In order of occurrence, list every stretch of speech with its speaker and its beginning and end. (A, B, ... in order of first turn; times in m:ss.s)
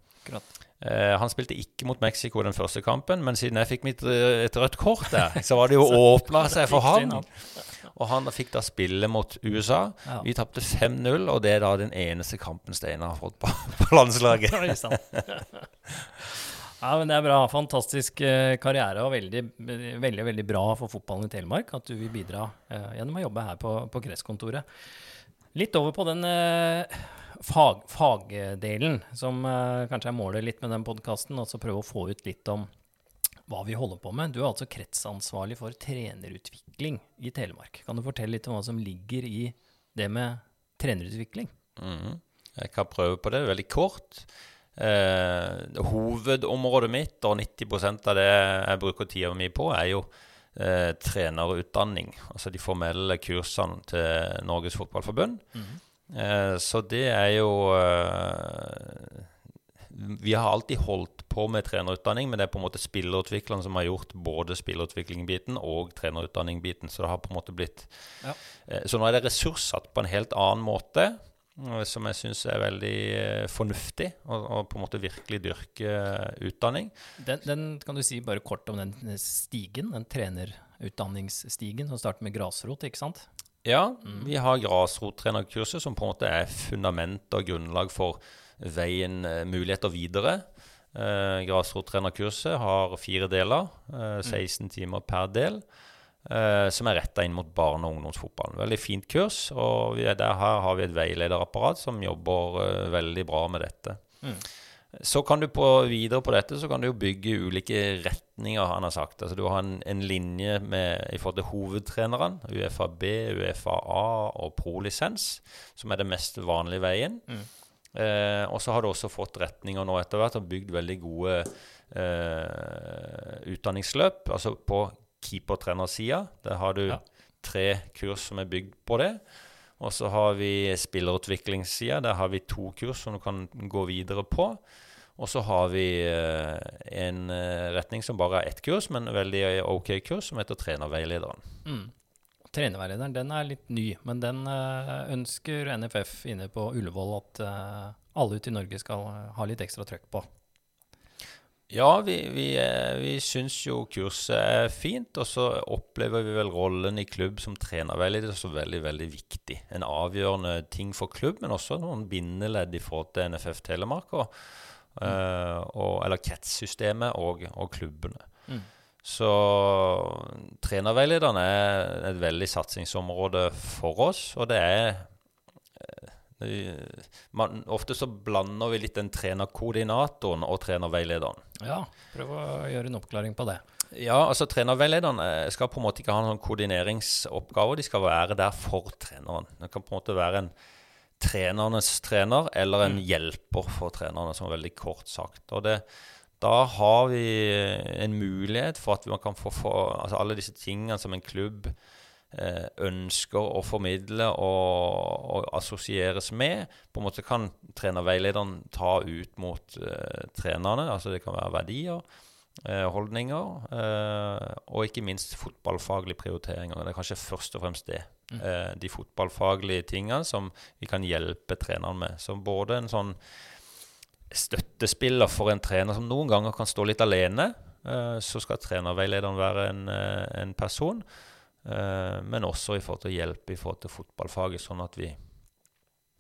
0:00.8-0:15.2 A
0:06.4-0:07.7 B
0:14.4-0:15.7 B
0:16.3-0:24.6 B
0:25.5-0:32.7 B
0:33.5-0:41.5 B
0:41.8-0:55.4 A
0:55.6-0:55.8 B
0:56.1-0:59.3 A
0:59.9-1:07.9 A
1:08.7-1:16.9 A
1:17.2-1:23.3 B
1:23.6-1:35.6 A
1:36.2-1:44.0 A
1:44.9-1:57.2 A
1:57.9-2:09.2 A
2:09.8-2:14.6 A
2:15.2-2:21.4 A
2:21.6-2:21.9 B
2:22.5-2:30.3 B
2:31.7-2:48.3 A
2:49.0-2:55.1 A
2:55.8-3:01.4 A
3:01.6-3:03.6 B
3:03.9-3:10.5 A
3:11.2-3:15.8 A
3:16.4-3:21.8 A
3:22.3-3:32.0 A
3:32.6-3:43.2 A
3:44.3-3:51.0 A
3:51.6-3:55.2 A